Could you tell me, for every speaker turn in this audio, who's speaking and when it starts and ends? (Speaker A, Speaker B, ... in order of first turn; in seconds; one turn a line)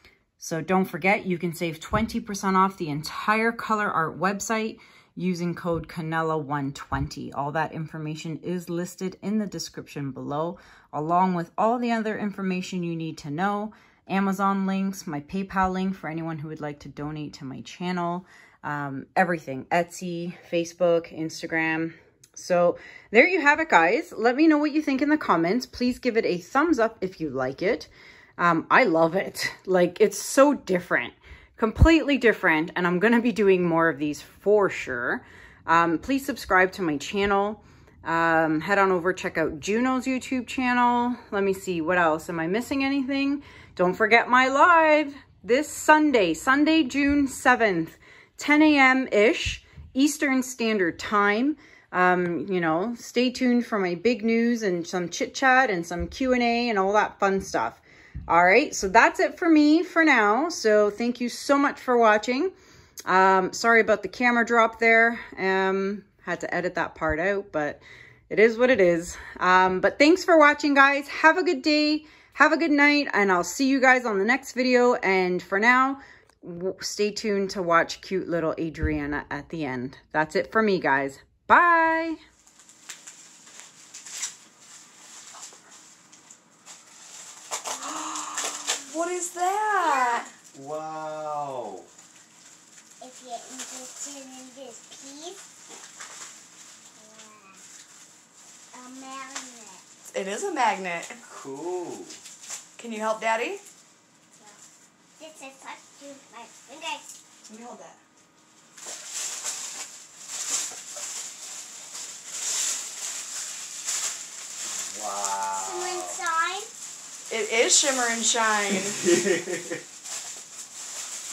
Speaker A: 0.4-62.5
Speaker A: 63.1-82.2
Speaker B: 87.8-90.3
Speaker C: 89.8-90.2
Speaker D: 90.5-91.9
Speaker C: 93.0-95.4
Speaker C: 97.0-97.6
Speaker C: 98.7-99.8
Speaker B: 100.1-101.2
Speaker D: 101.2-102.2
Speaker B: 102.8-103.6
Speaker C: 105.2-107.1
Speaker B: 107.5-108.0
Speaker D: 114.6-116.2
Speaker C: 115.5-116.7
Speaker B: 117.3-119.0
Speaker D: 119.0-119.8